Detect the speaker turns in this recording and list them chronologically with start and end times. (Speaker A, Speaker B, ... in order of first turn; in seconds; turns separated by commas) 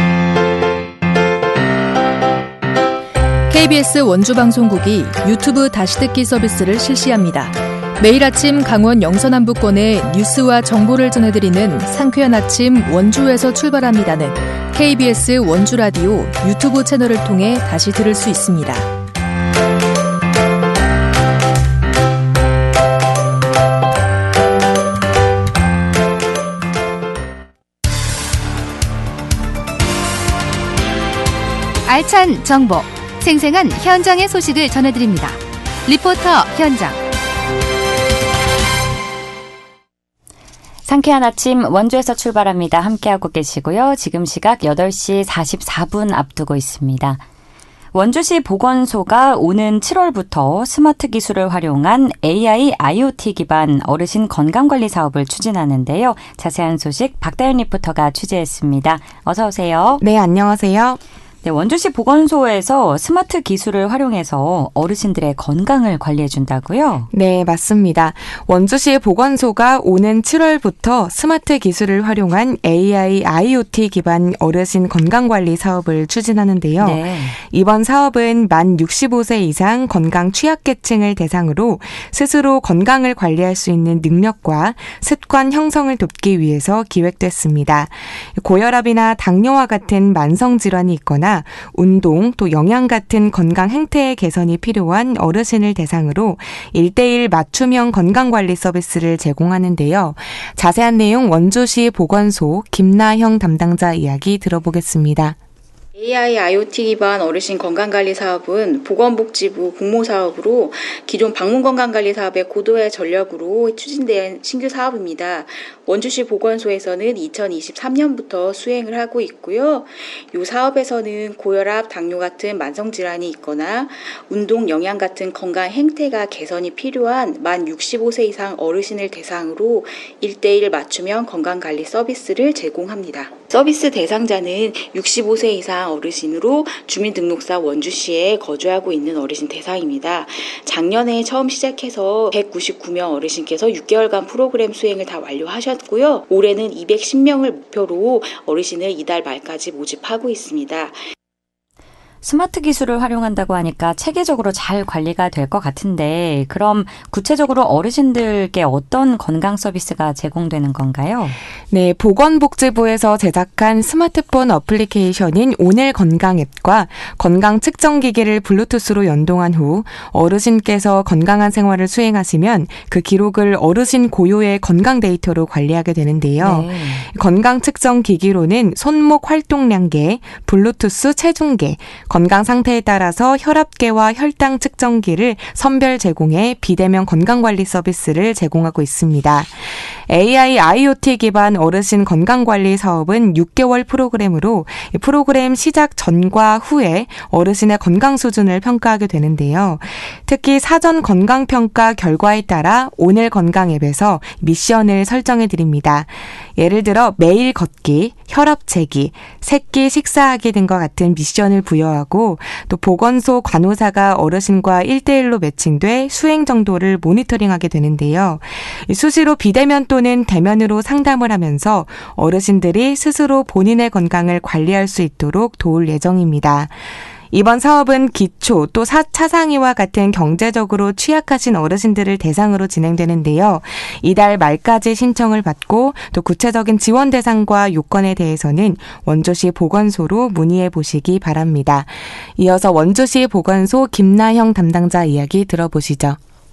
Speaker A: 3.5-18.9, Speaker B: 31.9-37.0, Speaker C: 40.9-47.2, Speaker C: 47.9-60.0, Speaker D: 60.0-61.0, Speaker C: 61.4-67.1, Speaker D: 67.1-105.4, Speaker C: 76.8-77.4, Speaker E: 106.0-151.0, Speaker C: 152.2-161.4, Speaker D: 161.7-246.2, Speaker C: 176.4-177.1